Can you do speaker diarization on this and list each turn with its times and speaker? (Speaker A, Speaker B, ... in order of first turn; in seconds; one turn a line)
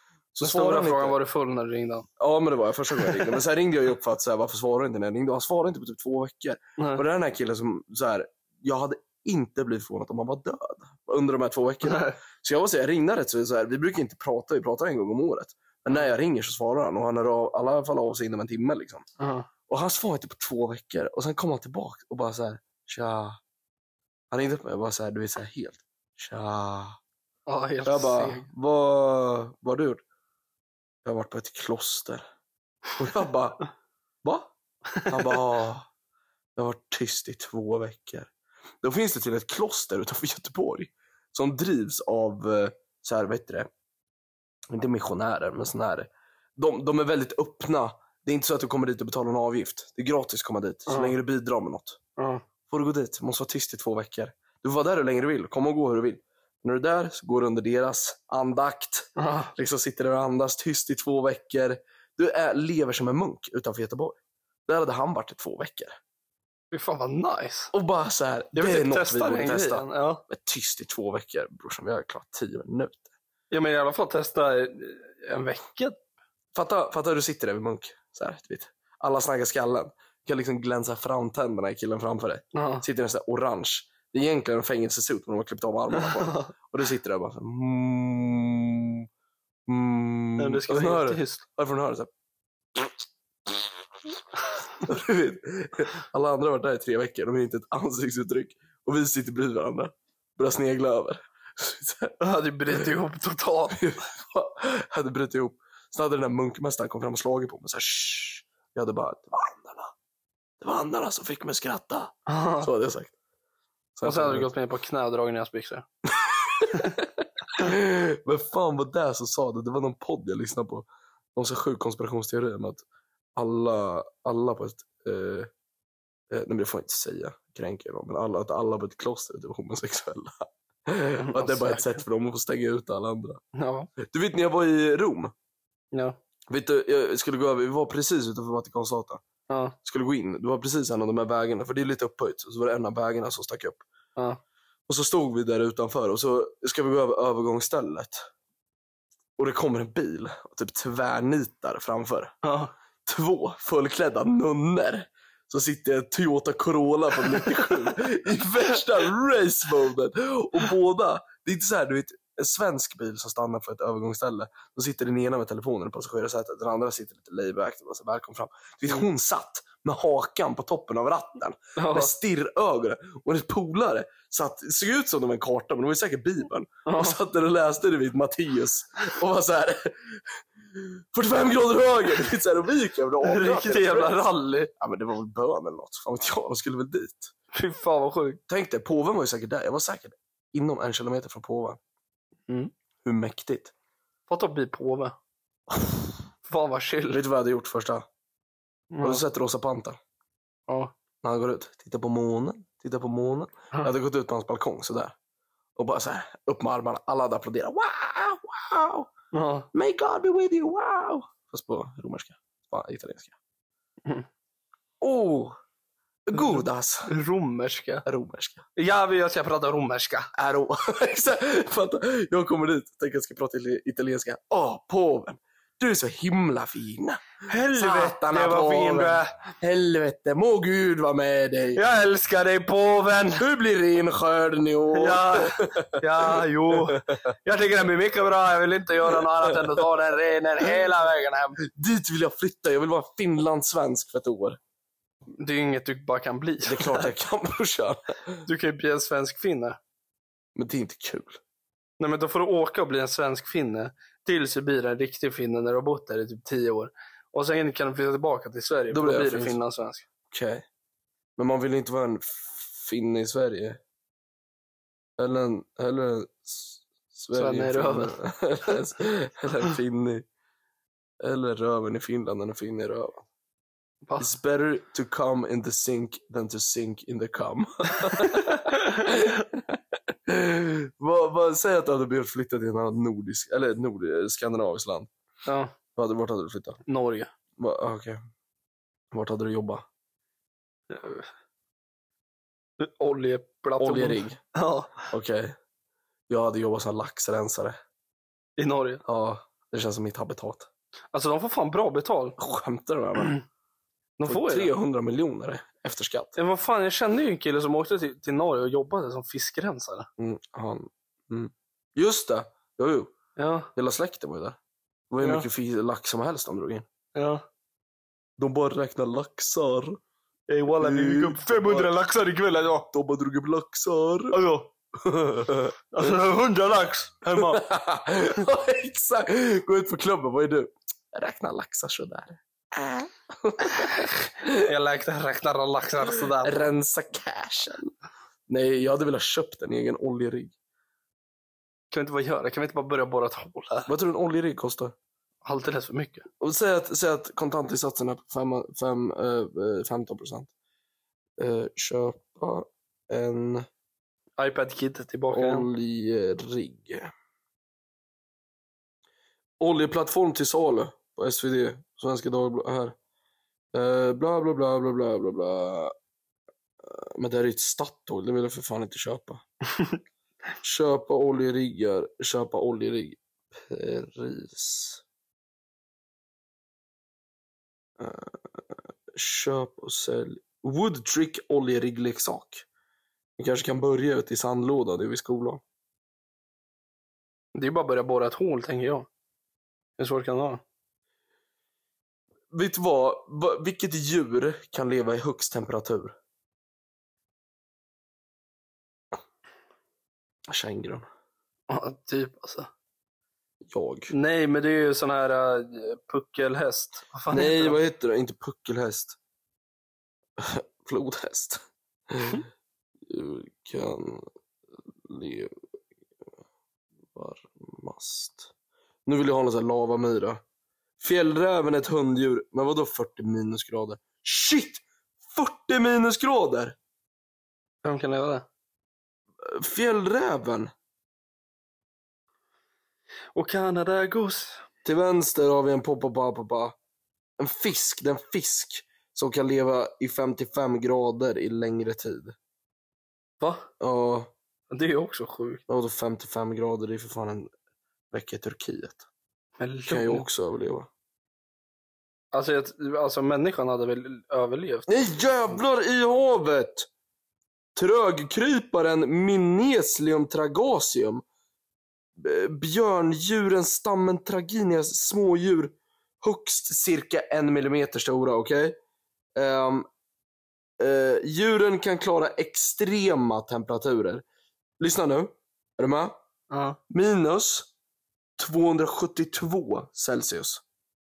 Speaker A: 0.3-1.2
Speaker B: 0.4-2.1
Speaker A: 2.2-19.0
Speaker B: 3.0-3.3
Speaker B: 6.8-7.0
Speaker B: 11.8-12.2
Speaker B: 19.2-19.5
Speaker A: 19.7-23.4
Speaker A: 24.3-27.0
Speaker B: 27.5-28.5
Speaker A: 27.8-30.0
Speaker A: 31.0-32.2
Speaker A: 33.0-33.6
Speaker A: 34.2-34.5
Speaker B: 35.0-35.4
Speaker A: 35.0-35.9
Speaker A: 36.5-43.7
Speaker A: 44.7-52.0
Speaker B: 50.9-51.1
Speaker B: 52.2-52.4
Speaker A: 52.7-66.0
Speaker B: 59.2-59.5
Speaker B: 66.7-67.7
Speaker A: 67.7-73.1
Speaker B: 68.5-70.2
Speaker B: 73.5-76.0
Speaker A: 76.5-89.0
Speaker B: 82.5-82.8
Speaker B: 86.1-86.5
Speaker A: 89.7-92.1
Speaker B: 90.4-91.4
Speaker A: 94.8-102.2
Speaker B: 102.2-103.8
Speaker A: 103.7-109.9
Speaker A: 110.6-113.1
Speaker B: 112.3-112.7
Speaker A: 114.0-114.5
Speaker B: 114.0-115.8
Speaker A: 116.1-125.5
Speaker A: 126.3-133.4
Speaker B: 131.2-132.0
Speaker B: 133.5-133.9
Speaker A: 134.0-135.3
Speaker A: 136.5-139.2
Speaker B: 139.5-139.8
Speaker A: 139.8-143.8
Speaker A: 144.9-148.2
Speaker A: 149.4-152.3
Speaker B: 152.4-152.7
Speaker A: 153.1-187.3
Speaker B: 171.8-172.1
Speaker B: 176.8-177.2
Speaker B: 183.2-184.7
Speaker B: 187.5-188.4
Speaker A: 188.5-191.8
Speaker A: 193.0-193.7
Speaker B: 194.3-195.2
Speaker A: 195.7-196.0
Speaker B: 196.4-197.2
Speaker A: 197.1-198.1
Speaker B: 198.9-199.2
Speaker A: 199.0-200.0
Speaker B: 200.7-200.9
Speaker A: 201.2-205.1
Speaker A: 205.8-209.1
Speaker B: 209.3-209.7
Speaker A: 209.7-213.3
Speaker A: 215.0-215.6
Speaker A: 216.3-217.1
Speaker B: 216.3-218.1
Speaker A: 218.1-218.7
Speaker B: 218.8-220.3
Speaker A: 220.3-231.8
Speaker B: 227.5-229.3
Speaker B: 231.8-233.4
Speaker A: 233.4-237.3
Speaker B: 234.9-241.6
Speaker A: 239.1-239.8
Speaker A: 241.6-244.6
Speaker B: 245.4-247.1
Speaker A: 246.6-248.4
Speaker B: 248.4-249.8
Speaker A: 250.5-251.4
Speaker B: 252.0-260.1
Speaker A: 258.9-259.6
Speaker A: 260.3-260.6
Speaker A: 261.4-263.8
Speaker A: 265.2-270.2
Speaker B: 267.3-268.1
Speaker A: 271.2-273.2
Speaker B: 274.1-274.3
Speaker A: 274.2-285.1
Speaker B: 278.0-279.1
Speaker B: 285.4-285.7
Speaker A: 285.9-286.8
Speaker B: 286.9-287.3
Speaker A: 287.6-288.2
Speaker A: 289.1-289.8
Speaker B: 290.9-291.3
Speaker B: 292.8-295.1
Speaker A: 293.8-294.4
Speaker A: 295.1-295.6
Speaker A: 296.3-297.8
Speaker B: 298.6-299.0
Speaker A: 299.1-300.7
Speaker B: 301.1-302.4
Speaker A: 302.4-303.4
Speaker B: 303.1-303.4
Speaker B: 304.2-304.7
Speaker A: 304.2-306.4
Speaker B: 306.4-310.1
Speaker A: 310.2-313.1
Speaker B: 313.4-313.7
Speaker A: 313.7-314.6
Speaker A: 315.1-316.9
Speaker B: 317.1-317.4
Speaker A: 318.4-320.0
Speaker B: 320.5-322.9
Speaker A: 320.8-322.0
Speaker A: 322.9-324.4
Speaker B: 324.3-324.7
Speaker A: 325.0-325.8
Speaker B: 325.9-327.7
Speaker A: 327.2-334.6
Speaker B: 333.7-336.7
Speaker A: 336.4-337.9
Speaker A: 338.5-340.5
Speaker B: 341.9-343.9
Speaker A: 343.9-344.9
Speaker B: 345.4-346.2
Speaker A: 346.4-350.5
Speaker A: 351.4-353.7
Speaker B: 354.4-355.7
Speaker A: 355.3-357.1
Speaker A: 359.6-362.9
Speaker A: 363.7-365.9
Speaker A: 366.8-369.4
Speaker A: 370.6-375.0
Speaker A: 378.0-382.6
Speaker A: 383.4-385.6
Speaker B: 387.5-389.1
Speaker B: 390.0-390.6
Speaker A: 392.5-396.1
Speaker A: 400.5-401.1
Speaker B: 401.7-402.7
Speaker A: 403.6-404.1
Speaker B: 404.1-407.8
Speaker A: 407.3-409.2
Speaker A: 410.4-412.5
Speaker A: 413.1-414.2
Speaker A: 415.0-415.5
Speaker A: 417.1-418.5
Speaker A: 419.1-420.4
Speaker A: 421.0-426.8
Speaker B: 427.8-428.4
Speaker A: 429.4-430.7
Speaker B: 433.3-434.6
Speaker A: 434.8-436.7
Speaker A: 437.4-442.4
Speaker B: 443.4-443.7
Speaker A: 443.8-444.3
Speaker B: 444.7-445.6
Speaker A: 445.7-447.5
Speaker A: 448.1-449.1
Speaker B: 449.6-450.3
Speaker A: 449.9-450.9
Speaker B: 452.3-454.9
Speaker A: 454.9-456.9
Speaker A: 457.8-461.2
Speaker A: 462.2-468.8
Speaker A: 469.4-469.9
Speaker A: 470.8-474.2
Speaker A: 474.8-476.1
Speaker B: 476.5-476.8
Speaker A: 476.9-477.7
Speaker A: 478.4-480.6